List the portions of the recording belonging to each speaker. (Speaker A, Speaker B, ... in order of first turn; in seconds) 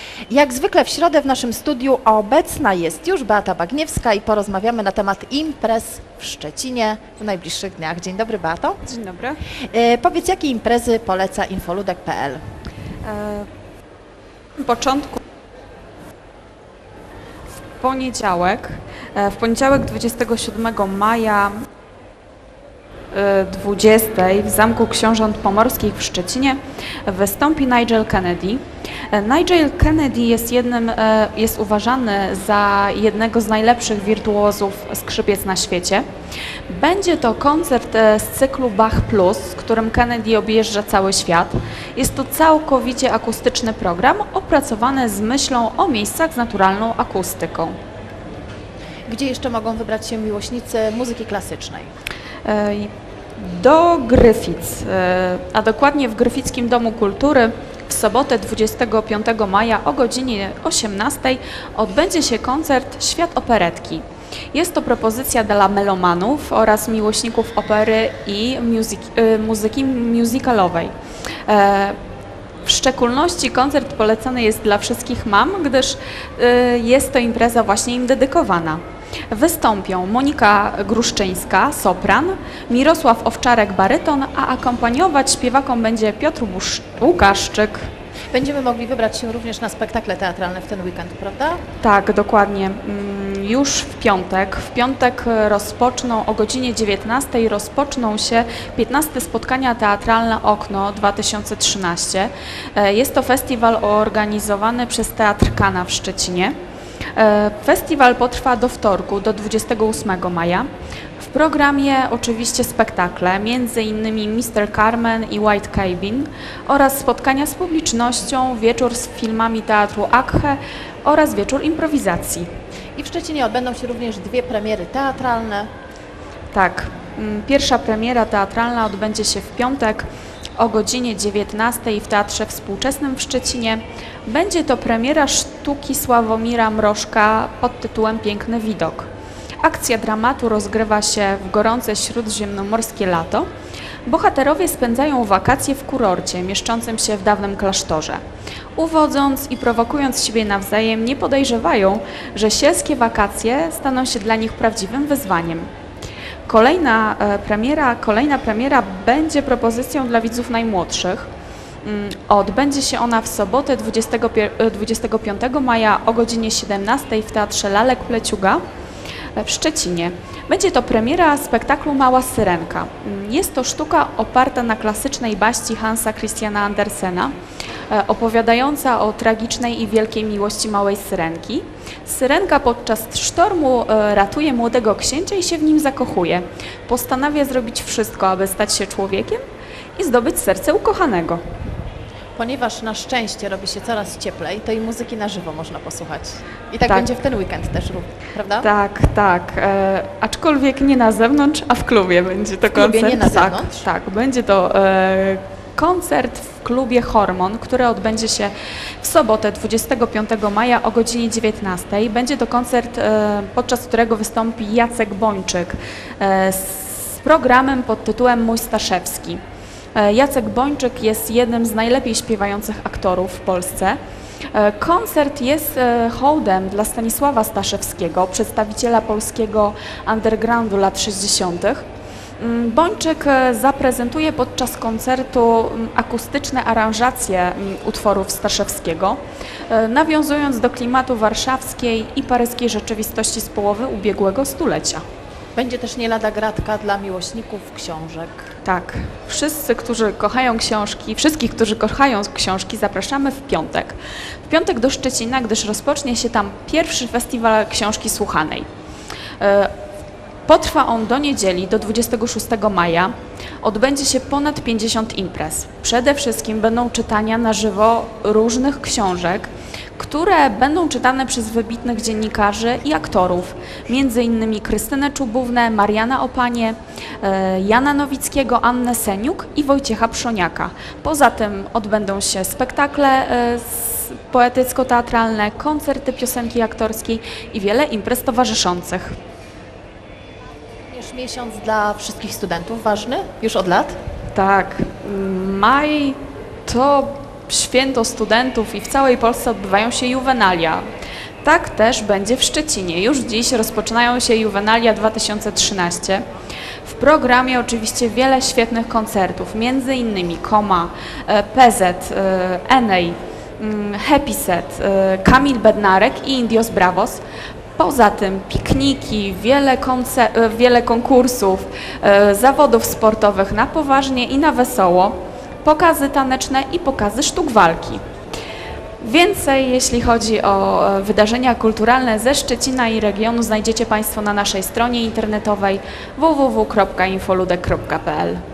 Speaker A: 0.3-8.8, 9.7-12.4, 49.1-51.9, 88.3-91.6, 123.0-125.7, 192.3-198.7, 202.7-203.9, 245.5-248.5, 290.9-293.9
Speaker B: 8.8-9.4, 13.0-13.5, 14.6-15.2, 17.8-21.6, 23.1-36.0, 36.7-47.7, 52.4-70.9, 71.5-72.0, 72.6-87.9, 91.8-106.5, 107.1-110.7, 111.2-122.5, 126.5-139.1, 139.6-143.5, 144.0-148.2, 148.7-155.7, 156.5-161.3, 161.8-168.6, 169.3-177.3, 177.9-189.4, 189.9-191.4, 198.6-219.4, 219.9-224.0, 224.5-231.8, 232.4-245.0, 248.6-258.6, 259.4-259.7, 260.5-289.1, 294.3-300.8, 301.4-306.2, 306.8-317.2, 317.8-328.0, 329.0-338.4